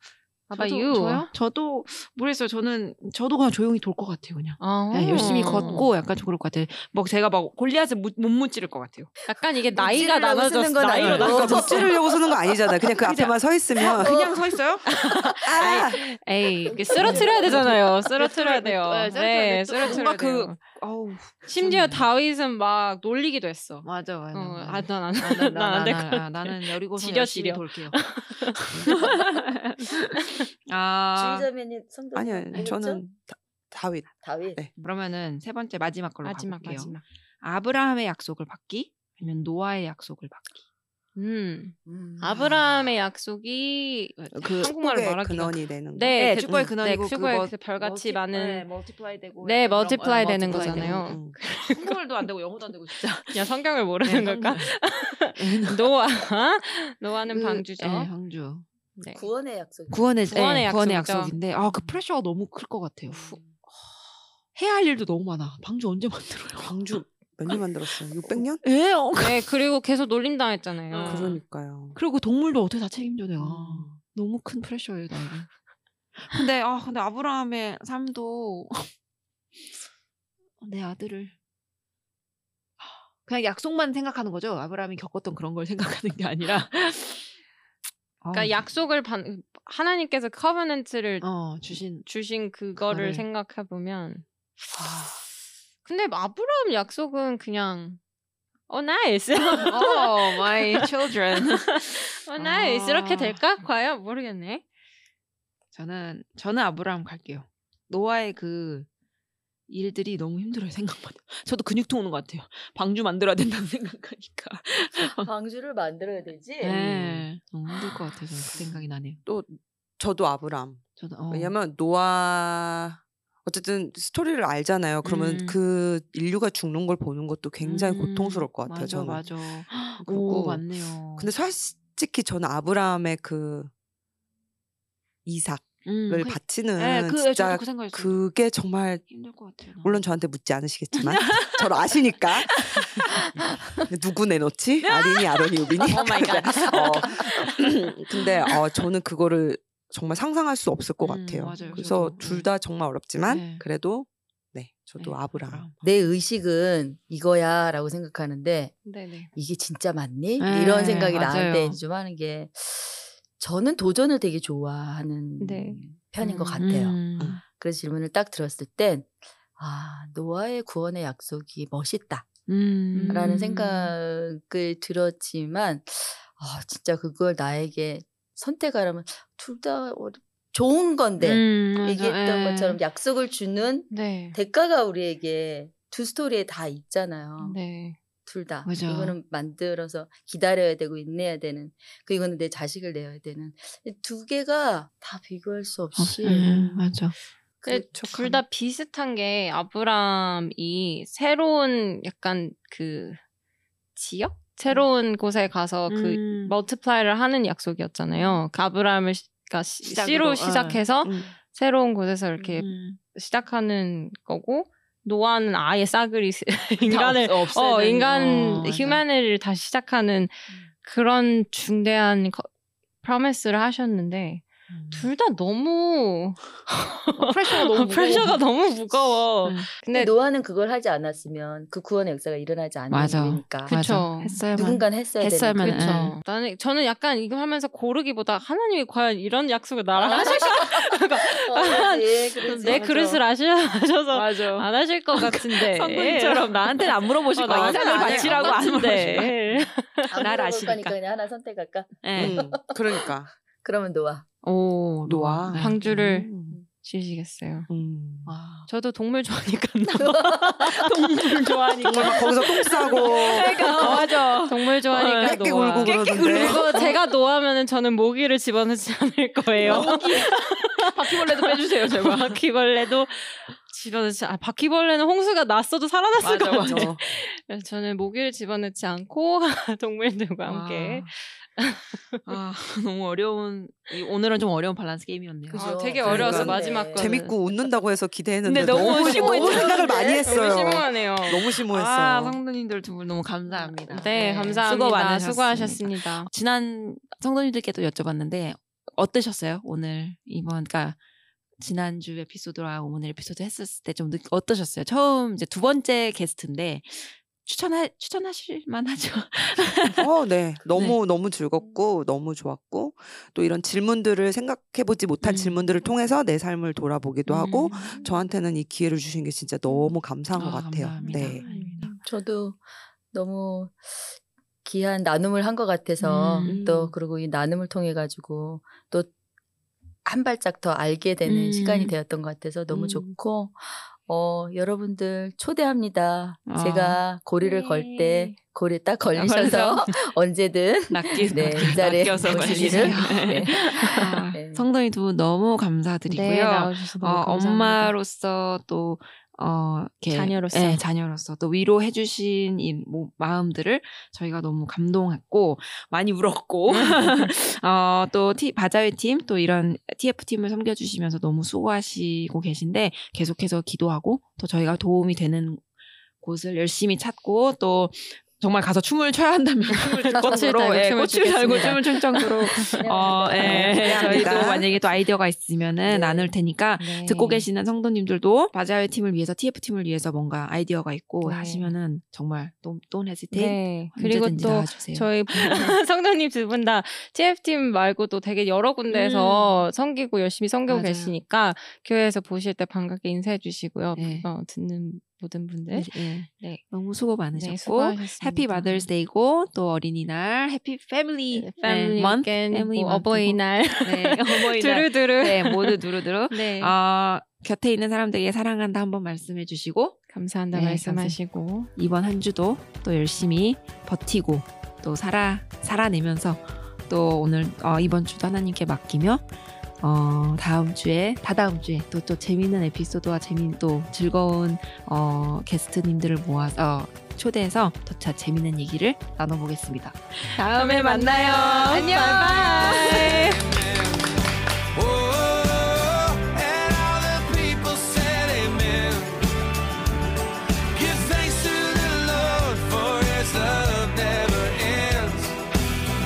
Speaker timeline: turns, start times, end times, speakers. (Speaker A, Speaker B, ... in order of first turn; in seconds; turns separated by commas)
Speaker A: 0.5-1.3, Speaker B: 0.5-9.2, Speaker A: 4.6-5.9, Speaker A: 9.3-12.0, Speaker C: 9.7-12.1, Speaker B: 11.0-11.7, Speaker D: 11.0-14.2, Speaker B: 12.9-15.0, Speaker C: 14.0-14.3, Speaker A: 15.0-20.7, Speaker D: 15.4-16.1, Speaker B: 17.0-22.1, Speaker C: 17.0-17.4, Speaker D: 17.1-17.7, Speaker A: 21.4-29.2, Speaker B: 23.9-28.0, Speaker B: 28.9-31.5, Speaker C: 31.1-33.0, Speaker D: 32.1-34.7, Speaker C: 34.2-34.6, Speaker B: 34.8-40.6, Speaker A: 36.2-37.0, Speaker A: 41.1-48.7, Speaker C: 41.9-42.5, Speaker B: 44.2-44.7, Speaker D: 44.6-46.7, Speaker B: 46.1-53.5, Speaker A: 49.4-52.2, Speaker D: 50.5-51.4, Speaker A: 53.3-58.1, Speaker B: 54.0-54.7, Speaker B: 55.4-55.9, Speaker B: 57.3-58.6, Speaker A: 59.0-59.2, Speaker C: 59.1-60.2, Speaker B: 59.9-63.4, Speaker A: 60.3-61.4, Speaker A: 63.1-63.6, Speaker B: 64.6-66.8, Speaker D: 66.6-68.6, Speaker B: 68.4-69.5, Speaker A: 69.2-71.4, Speaker B: 70.9-71.4, Speaker D: 71.1-72.0, Speaker B: 72.0-75.5, Speaker D: 73.4-74.0, Speaker B: 76.2-78.9, Speaker B: 80.6-81.3, Speaker B: 82.8-87.3, Speaker B: 88.2-88.6, Speaker A: 88.3-91.2, Speaker B: 91.2-92.1, Speaker A: 92.1-95.1, Speaker B: 92.8-93.2, Speaker B: 94.8-95.1, Speaker A: 95.8-98.0, Speaker A: 98.7-104.6, Speaker B: 99.7-101.6, Speaker B: 102.4-103.4, Speaker B: 105.7-108.9, Speaker B: 109.7-115.3, Speaker C: 115.2-117.2, Speaker B: 116.6-119.2, Speaker D: 119.3-133.7, Speaker B: 121.0-121.5, Speaker B: 125.0-125.6, Speaker B: 127.6-131.3, Speaker D: 135.2-139.1, Speaker B: 135.8-138.2, Speaker B: 139.1-140.0, Speaker D: 139.8-143.0, Speaker B: 140.9-141.9, Speaker B: 142.5-143.3, Speaker D: 143.8-155.7, Speaker B: 144.8-147.5, Speaker A: 145.8-147.5, Speaker B: 151.0-152.5, Speaker A: 151.5-151.8, Speaker B: 153.2-153.6, Speaker B: 155.0-155.8, Speaker C: 155.8-158.8, Speaker A: 158.8-159.3, Speaker C: 159.3-167.0, Speaker B: 160.4-161.8, Speaker A: 165.4-166.6, Speaker B: 166.6-167.4, Speaker C: 167.5-172.3, Speaker B: 172.5-173.9, Speaker A: 172.9-173.4, Speaker C: 173.1-187.6, Speaker B: 181.2-182.8, Speaker A: 183.9-184.4, Speaker A: 187.4-188.0, Speaker C: 188.2-196.9, Speaker B: 188.6-189.2, Speaker B: 196.0-197.1, Speaker C: 197.6-198.3, Speaker A: 197.6-203.2, Speaker A: 204.0-222.5, Speaker B: 205.9-206.6, Speaker B: 209.8-210.8, Speaker D: 211.0-211.3, Speaker B: 212.4-213.0, Speaker B: 216.9-219.0, Speaker A: 223.0-230.1, Speaker B: 224.7-225.1, Speaker B: 227.2-228.4, Speaker C: 229.9-233.8, Speaker B: 232.9-236.2, Speaker A: 233.7-234.4, Speaker C: 234.6-235.8, Speaker A: 235.6-250.2, Speaker C: 239.9-243.2, Speaker B: 242.6-242.9, Speaker B: 244.1-249.6, Speaker D: 247.5-249.3, Speaker C: 250.1-253.0, Speaker B: 250.2-251.0, Speaker B: 252.0-252.4, Speaker D: 252.1-253.3, Speaker C: 253.6-254.3, Speaker A: 254.4-257.7, Speaker D: 255.1-256.6, Speaker B: 255.1-256.2, Speaker D: 257.7-258.4, Speaker B: 258.3-258.7, Speaker A: 258.7-282.3, Speaker C: 260.0-260.6, Speaker B: 260.7-267.0, Speaker D: 261.8-264.0, Speaker D: 265.2-266.7, Speaker B: 269.6-270.3, Speaker B: 270.9-272.4, Speaker B: 276.2-276.9, Speaker D: 276.7-277.0, Speaker B: 280.5-281.1, Speaker B: 282.3-285.6, Speaker C: 285.5-287.1, Speaker A: 285.5-287.4, Speaker D: 286.0-292.4, Speaker B: 288.4-290.0, Speaker C: 288.7-290.6, Speaker A: 290.2-291.5, Speaker B: 291.7-301.0, Speaker A: 293.5-296.3, Speaker B: 301.6-310.1, Speaker D: 310.0-321.4, Speaker B: 315.2-315.6, Speaker B: 317.3-318.0, Speaker A: 317.8-318.1, Speaker B: 320.3-322.0, Speaker A: 321.0-322.0, Speaker C: 321.8-329.1, Speaker B: 326.0-326.9, Speaker C: 330.1-344.6, Speaker B: 331.2-332.0, Speaker B: 332.7-333.0, Speaker B: 336.5-337.0, Speaker A: 337.4-338.4, Speaker B: 339.1-339.9, Speaker B: 340.9-365.6, Speaker A: 342.3-343.0, Speaker A: 343.9-344.3, Speaker A: 346.1-347.9, Speaker A: 350.1-350.8, Speaker A: 356.7-357.3, Speaker B: 366.2-385.8, Speaker A: 369.8-374.3, Speaker C: 372.8-374.7, Speaker D: 373.5-374.7, Speaker C: 375.9-376.3, Speaker A: 376.8-377.5, Speaker A: 381.2-381.7, Speaker A: 383.3-396.6, Speaker B: 388.9-389.6, Speaker B: 390.7-391.1, Speaker B: 394.0-394.3, Speaker B: 395.7-410.0, Speaker A: 397.3-398.9, Speaker A: 401.3-406.8, Speaker A: 410.1-411.7, Speaker B: 410.5-411.2, Speaker B: 411.8-419.3, Speaker B: 419.8-433.1, Speaker A: 430.4-433.4, Speaker E: 433.0-439.3, Speaker E: 440.7-445.4